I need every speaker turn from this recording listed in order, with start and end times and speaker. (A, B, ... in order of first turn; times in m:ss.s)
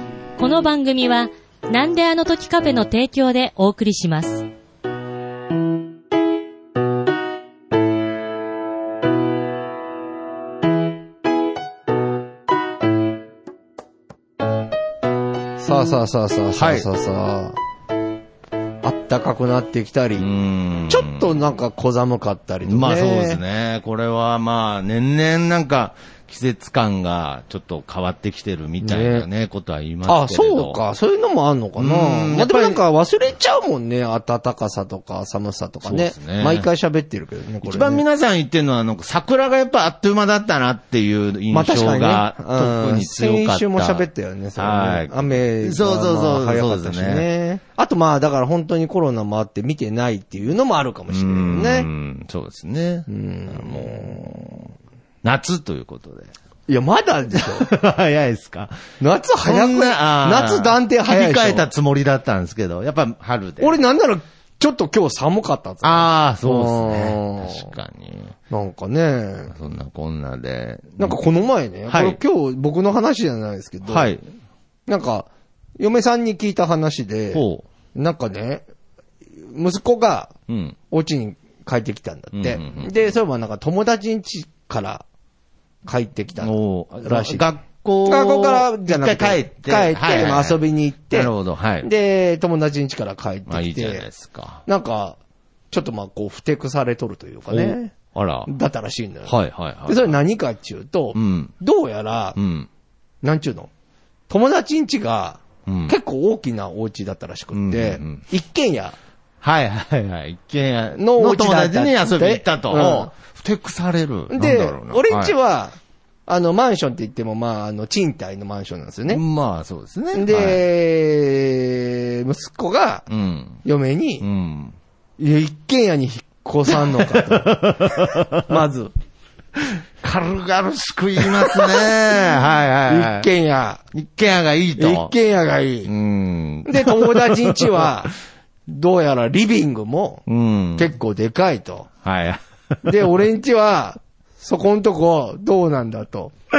0:00.4-0:04.4 A
0:15.6-0:17.6 B
0:16.6-0:16.9 C
0:18.8-0:20.3 B
0:20.2-0:21.3 C
0:20.9-0:23.4 B
0:22.6-0:30.8 C
0:28.8-0:29.3 B
0:30.0-0:38.0 B
0:31.8-0:32.8 C
0:35.8-0:36.7 C
0:37.6-0:47.3 C
0:41.5-0:51.9 B
0:51.1-0:54.4 C
0:53.1-0:54.6 B
0:55.2-0:56.3 C
0:56.7-0:57.7 B
0:57.4-0:58.8 C
0:59.0-1:01.7 B
0:59.4-1:03.8 C
1:03.6-1:07.7 B
1:05.8-1:08.3 C
1:08.5-1:09.5 B
1:09.5-1:11.2 C
1:11.0-1:14.1 B
1:11.9-1:12.2 C
1:13.9-1:14.2 C
1:14.9-1:15.3 B
1:15.8-1:17.4 B
1:17.3-1:17.6 C
1:18.0-1:18.6 B
1:19.4-1:20.3 B
1:20.5-1:20.8 C
1:20.9-1:25.0 B
1:22.4-1:22.9 C
1:25.9-1:27.5 B
1:26.4-1:30.6 C
1:28.1-1:34.1 B
1:31.1-1:31.9 C
1:33.5-1:34.6 C
1:34.7-1:35.2 B
1:35.7-1:37.9 B
1:37.5-1:38.5 C
1:38.5-1:42.4 B
1:39.3-1:40.2 C
1:41.2-1:41.5 C
1:42.4-1:42.7 C
1:43.2-1:43.7 B
1:44.3-1:49.0 B
1:45.7-1:45.9 C
1:47.5-1:48.2 C
1:49.4-1:55.3 C
1:51.0-1:53.1 B
1:54.3-1:55.8 B
1:56.3-1:59.2 B
1:59.1-2:00.6 C
2:00.1-2:03.1 B
2:03.1-2:03.6 C
2:03.6-2:04.2 B
2:04.2-2:04.8 C
2:05.2-2:07.6 B
2:06.7-2:08.5 C
2:08.4-2:08.9 B
2:09.6-2:13.3 C
2:11.4-2:11.8 B
2:12.9-2:13.8 B
2:13.9-2:15.1 C
2:14.8-2:15.9 B
2:15.8-2:17.9 C
2:16.7-2:18.1 B
2:18.7-2:20.2 B
2:20.3-2:20.9 C
2:20.8-2:21.9 B
2:22.0-2:22.4 C
2:22.8-2:26.3 B